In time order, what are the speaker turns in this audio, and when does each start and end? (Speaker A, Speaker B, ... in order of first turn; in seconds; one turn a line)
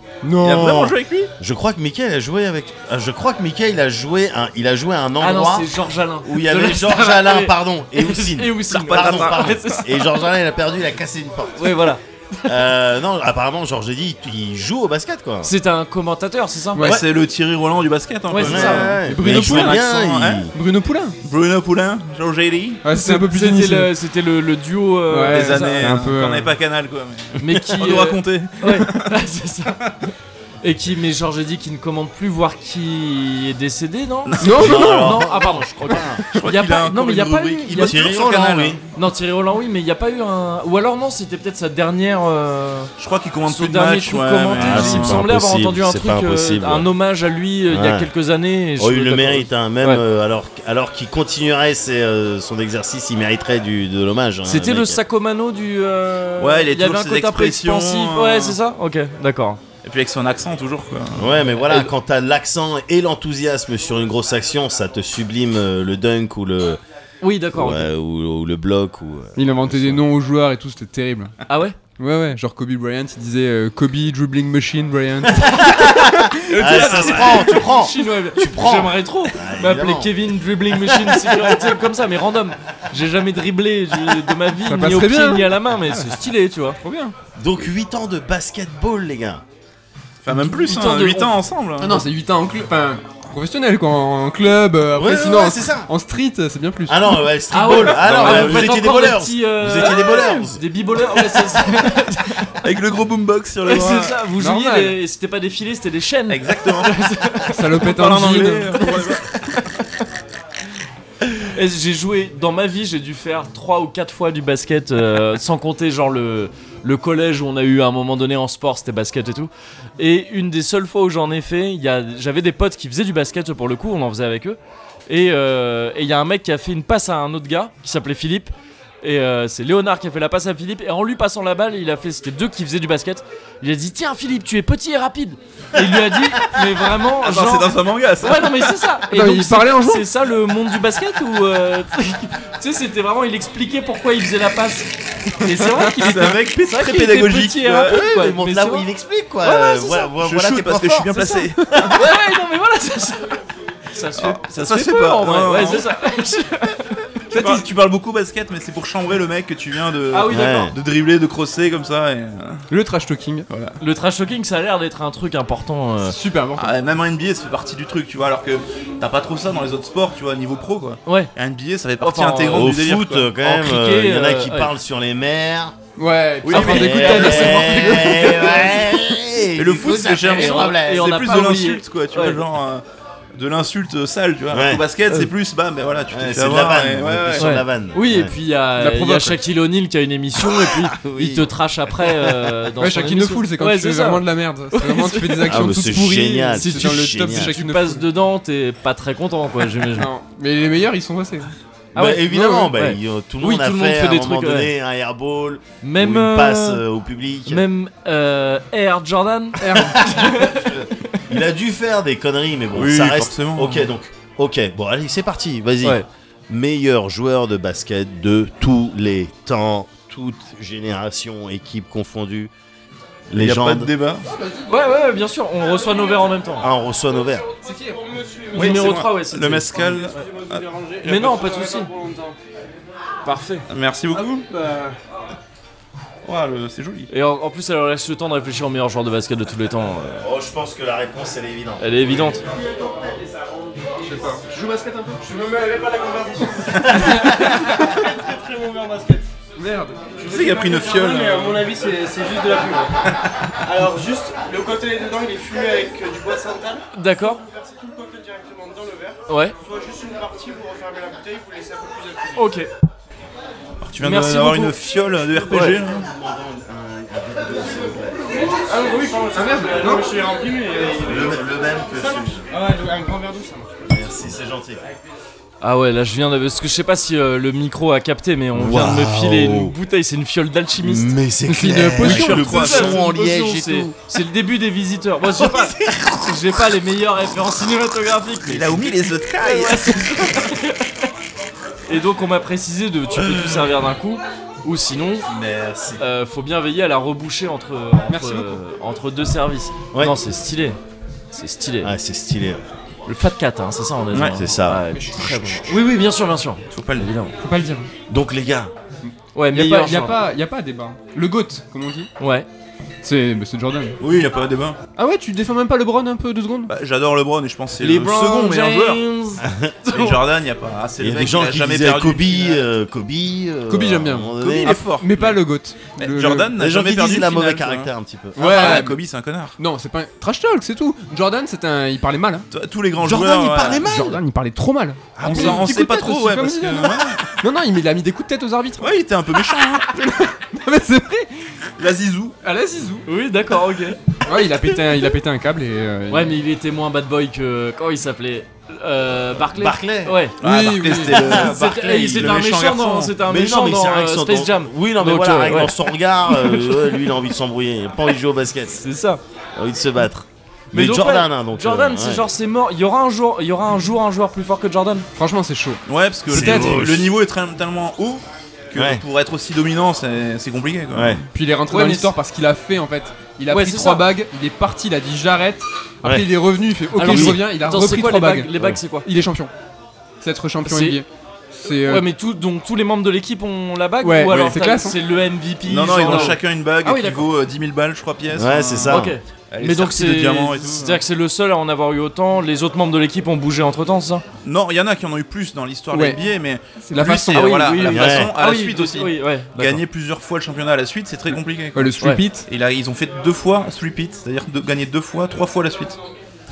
Speaker A: 0.2-0.9
Speaker B: 0.4-1.3
Speaker C: 1.4-5.7
Speaker D: 5.2-10.1
Speaker C: 6.2-11.9
Speaker B: 8.7-9.6
Speaker D: 11.6-12.7
Speaker C: 12.5-15.5
Speaker D: 15.4-16.8
Speaker B: 16.8-20.5
Speaker C: 16.8-17.1
Speaker D: 18.3-18.9
Speaker C: 18.4-20.6
Speaker A: 19.0-19.9
Speaker A: 20.5-21.2
Speaker B: 21.2-22.8
Speaker A: 22.8-23.9
Speaker D: 22.9-25.9
Speaker A: 25.1-26.5
Speaker B: 25.3-29.1
Speaker D: 27.4-29.9
Speaker D: 30.6-38.0
Speaker B: 34.3-35.2
Speaker A: 34.4-35.3
Speaker C: 34.5-36.2
Speaker B: 36.3-38.8
Speaker C: 37.8-38.8
Speaker D: 39.0-42.9
Speaker B: 43.0-45.2
Speaker D: 43.5-50.0
Speaker C: 44.5-46.9
Speaker C: 47.7-48.1
Speaker C: 48.8-55.0
Speaker D: 54.5-59.6
Speaker B: 56.4-58.6
Speaker B: 59.8-61.3
Speaker C: 61.2-66.8
Speaker D: 67.2-67.9
Speaker C: 67.5-70.0
Speaker A: 69.4-71.3
Speaker D: 71.5-71.8
Speaker A: 72.0-76.4
Speaker C: 75.4-81.5
Speaker B: 76.5-77.6
Speaker D: 76.8-86.8
Speaker A: 84.7-86.1
Speaker A: 86.8-87.2
Speaker C: 87.4-89.4
Speaker B: 90.2-92.0
Speaker D: 90.5-91.3
Speaker A: 91.8-97.2
Speaker C: 94.9-95.9
Speaker C: 96.9-100.6
Speaker D: 97.5-102.5
Speaker B: 98.0-98.8
Speaker B: 102.6-104.2
Speaker D: 103.7-107.8
Speaker A: 104.4-105.0
Speaker B: 106.3-107.0
Speaker A: 107.5-108.9
Speaker B: 107.8-109.4
Speaker D: 111.4-148.9
Speaker B: 137.0-138.8
Speaker A: 139.1-140.1
Speaker B: 146.0-148.0
Speaker C: 147.8-151.2
Speaker D: 149.4-150.1
Speaker B: 150.2-151.9
Speaker D: 151.9-153.4
Speaker D: 153.9-157.0
Speaker B: 154.2-155.9
Speaker A: 157.3-157.7
Speaker B: 157.3-162.7
Speaker D: 160.1-160.7
Speaker C: 160.3-160.8
Speaker A: 162.7-163.5
Speaker B: 163.5-163.8
Speaker D: 163.8-166.2
Speaker A: 166.0-166.7
Speaker B: 166.6-173.3
Speaker D: 172.0-172.7
Speaker C: 172.5-175.8
Speaker D: 173.4-174.7
Speaker A: 176.0-179.0
Speaker B: 176.4-177.8
Speaker C: 176.5-181.1
Speaker D: 176.5-177.7
Speaker B: 179.6-182.8
Speaker D: 180.3-182.4
Speaker B: 183.3-187.6
Speaker C: 184.5-184.8
Speaker C: 186.1-188.3
Speaker D: 187.4-195.7
Speaker A: 188.8-189.4
Speaker C: 190.5-191.5
Speaker A: 192.8-198.0
Speaker C: 195.5-197.6
Speaker D: 196.6-200.1
Speaker A: 199.9-201.5
Speaker C: 201.9-207.7
Speaker D: 201.9-204.7
Speaker A: 202.3-202.7
Speaker D: 205.8-206.8
Speaker D: 207.5-211.2
Speaker A: 209.6-210.3
Speaker C: 210.2-222.5
Speaker B: 212.7-213.9
Speaker C: 223.3-223.9
Speaker B: 223.3-224.2
Speaker E: 224.3-224.7
Speaker D: 224.7-226.7
Speaker E: 225.8-226.2
Speaker C: 226.6-227.5
Speaker E: 227.4-229.0
Speaker D: 228.5-230.0
Speaker B: 228.5-231.3
Speaker E: 229.7-232.4
Speaker D: 231.0-231.9
Speaker D: 233.2-233.7
Speaker B: 233.7-234.4
Speaker E: 234.1-235.0
Speaker B: 236.2-237.1
Speaker D: 237.1-240.2
Speaker C: 240.2-242.4
Speaker D: 241.8-242.4
Speaker E: 242.4-249.3
Speaker A: 244.1-245.1
Speaker A: 246.9-248.1
Speaker A: 249.6-250.1
Speaker E: 250.0-262.6
Speaker B: 250.2-251.7
Speaker D: 256.9-257.4
Speaker D: 259.3-259.6
Speaker D: 262.4-262.7
Speaker B: 263.8-266.1
Speaker D: 264.0-264.8
Speaker D: 265.4-265.8
Speaker C: 265.8-268.2
Speaker E: 268.2-274.1
Speaker A: 269.4-270.0
Speaker C: 271.0-272.5
Speaker C: 273.9-274.8
Speaker D: 275.6-281.1
Speaker C: 278.5-279.8
Speaker C: 280.8-284.0
Speaker A: 281.5-282.5
Speaker B: 282.0-283.1
Speaker D: 282.1-291.1
Speaker C: 285.4-286.6
Speaker B: 288.4-290.4
Speaker D: 291.9-295.3
Speaker C: 295.3-296.0
Speaker D: 296.0-300.8
Speaker A: 298.1-298.6
Speaker D: 301.3-301.9
Speaker C: 301.8-302.6
Speaker D: 303.1-307.4
Speaker B: 304.1-304.4
Speaker C: 304.3-304.8
Speaker A: 304.9-305.8
Speaker B: 306.7-307.1
Speaker A: 307.4-307.9
Speaker C: 308.1-308.7
Speaker A: 309.0-312.1
Speaker D: 309.4-310.2
Speaker D: 312.2-312.5
Speaker A: 313.0-314.0
Speaker B: 314.0-314.8
Speaker A: 315.0-316.7
Speaker B: 316.7-319.1
Speaker D: 317.8-320.1
Speaker C: 319.4-319.8
Speaker B: 319.9-322.6
Speaker C: 321.0-324.8
Speaker A: 323.7-326.5
Speaker B: 324.4-325.4
Speaker B: 326.0-329.6
Speaker C: 326.6-328.9
Speaker A: 328.4-329.0
Speaker A: 329.6-332.5
Speaker B: 332.5-333.8
Speaker C: 333.0-334.2
Speaker A: 333.8-338.9
Speaker C: 335.2-335.7
Speaker B: 335.2-337.2
Speaker B: 338.8-339.9
Speaker A: 340.0-341.3
Speaker B: 341.8-342.4
Speaker A: 342.4-343.1
Speaker D: 343.1-344.2
Speaker A: 344.2-346.4
Speaker D: 346.1-350.4
Speaker C: 349.6-350.2
Speaker B: 350.4-353.1
Speaker A: 350.4-351.1
Speaker C: 350.9-352.5
Speaker D: 351.3-357.0
Speaker C: 353.2-358.8
Speaker D: 358.7-359.2
Speaker C: 359.6-362.2
Speaker D: 360.7-365.1
Speaker A: 365.2-366.8
Speaker B: 365.9-371.2
Speaker C: 366.3-367.1
Speaker C: 368.8-369.0
Speaker C: 370.9-371.2
Speaker A: 371.3-379.5
Speaker D: 371.7-372.1
Speaker D: 373.5-374.1
Speaker C: 376.0-376.3
Speaker D: 377.0-379.1
Speaker C: 377.0-377.4
Speaker A: 380.2-381.1
Speaker D: 380.6-381.0
Speaker A: 381.6-382.1
Speaker D: 381.7-387.3
Speaker A: 384.0-385.0
Speaker B: 385.7-391.0
Speaker A: 386.1-386.3
Speaker C: 388.3-389.1
Speaker D: 388.9-394.2
Speaker B: 394.4-406.0
Speaker A: 395.9-396.2
Speaker A: 396.9-397.5
Speaker D: 397.4-399.8
Speaker C: 397.9-398.3
Speaker A: 401.8-402.5